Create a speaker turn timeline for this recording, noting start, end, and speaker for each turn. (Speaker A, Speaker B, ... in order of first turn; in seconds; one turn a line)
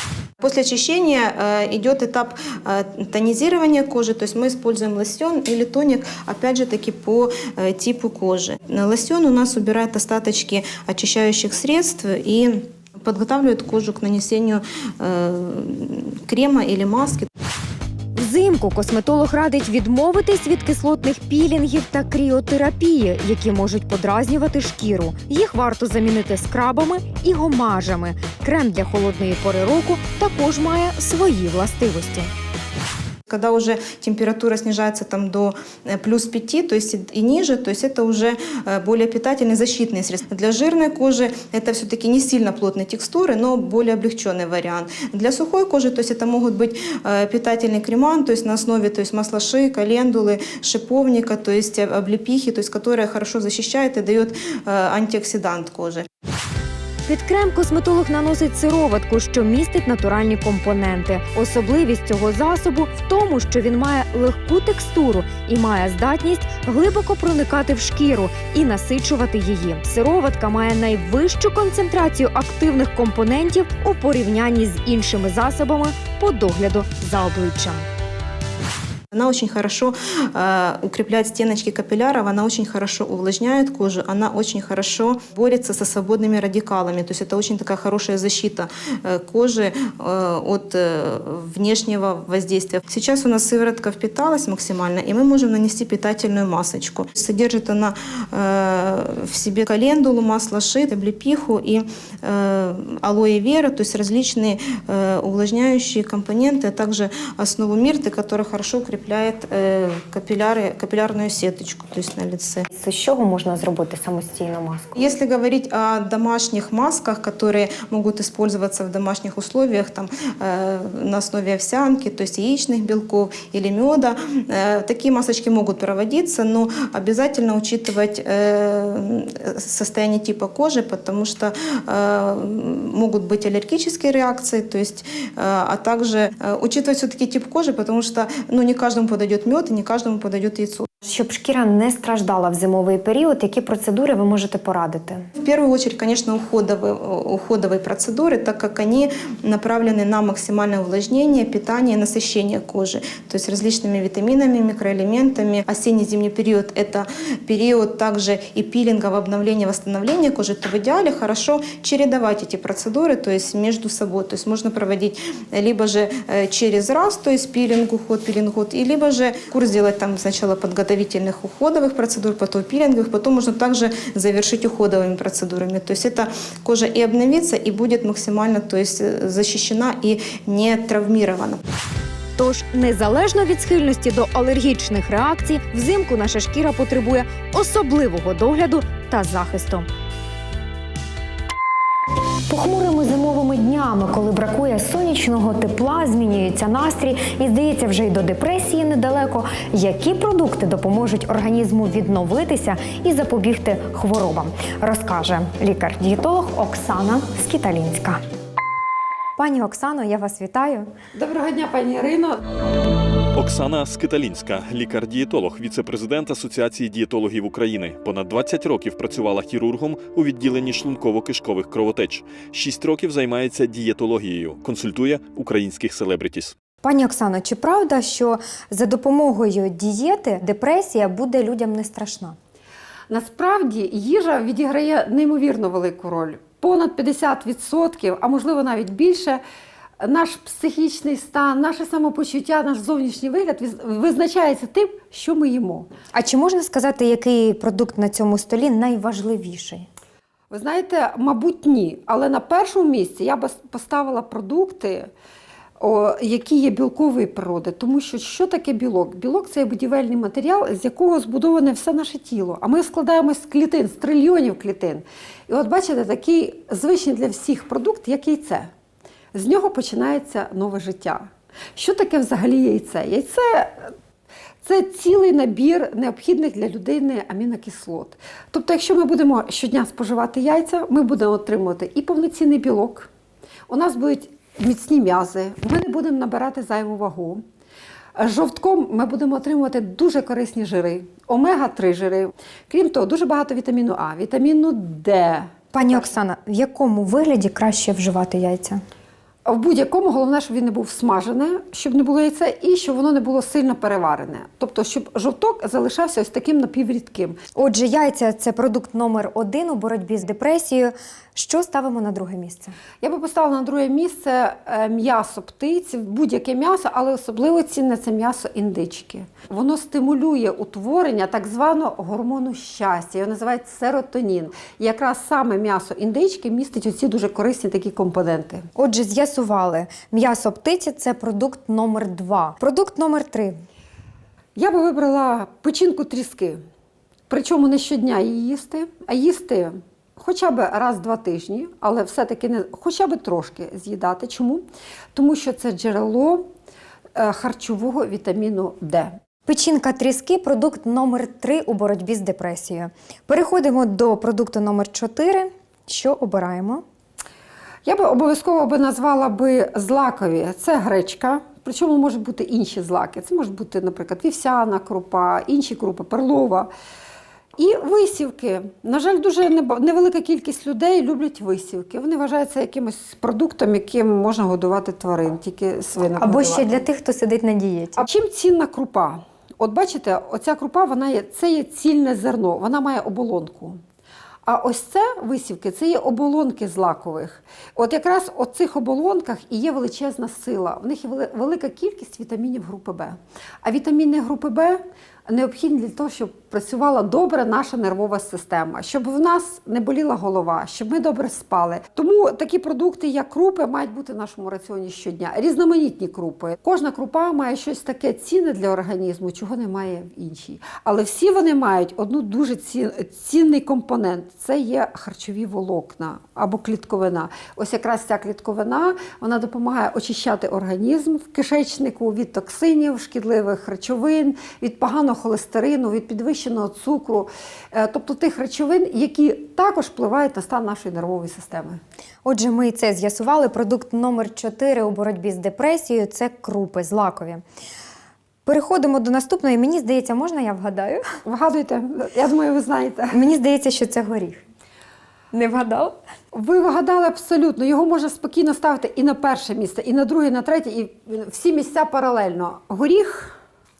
Speaker A: 0.4-17.3
Speaker B: 18.1-32.3
Speaker A: 33.3-56.0
Speaker B: 57.1-77.8
Speaker A: 79.1-112.6
Speaker B: 112.7-114.9
Speaker A: 115.0-140.9
Speaker B: 141.0-145.3
Speaker A: 145.3-181.6
Speaker B: 182.4-189.9
Speaker B: 192.5-208.2
Speaker B: 209.4-210.9
Speaker C: 211.1-212.4
Speaker D: 213.3-226.5
Speaker B: 226.8-232.3
Speaker C: 233.1-239.4
Speaker C: 240.0-245.9
Speaker B: 246.1-249.9
Speaker C: 250.5-255.1
Speaker C: 255.8-268.7
Speaker C: 269.3-273.9
Speaker C: 274.6-283.1
Speaker C: 283.7-287.4
Speaker C: 288.1-295.5
Speaker B: 295.7-298.8
Speaker C: 299.4-307.4
Speaker B: 307.6-312.7
Speaker C: 313.0-328.6
Speaker B: 328.8-333.6
Speaker C: 334.6-336.6
Speaker C: 337.3-346.5
Speaker C: 347.1-349.2
Speaker B: 349.5-356.8
Speaker C: 357.8-366.7
Speaker C: 367.6-376.7
Speaker B: 376.2-378.1
Speaker C: 378.0-383.8
Speaker C: 384.4-431.8
Speaker B: 432.2-437.4
Speaker B: 438.4-441.0
Speaker C: 441.2-443.2
Speaker B: 443.1-444.4
Speaker B: 445.3-445.9
Speaker C: 446.3-453.4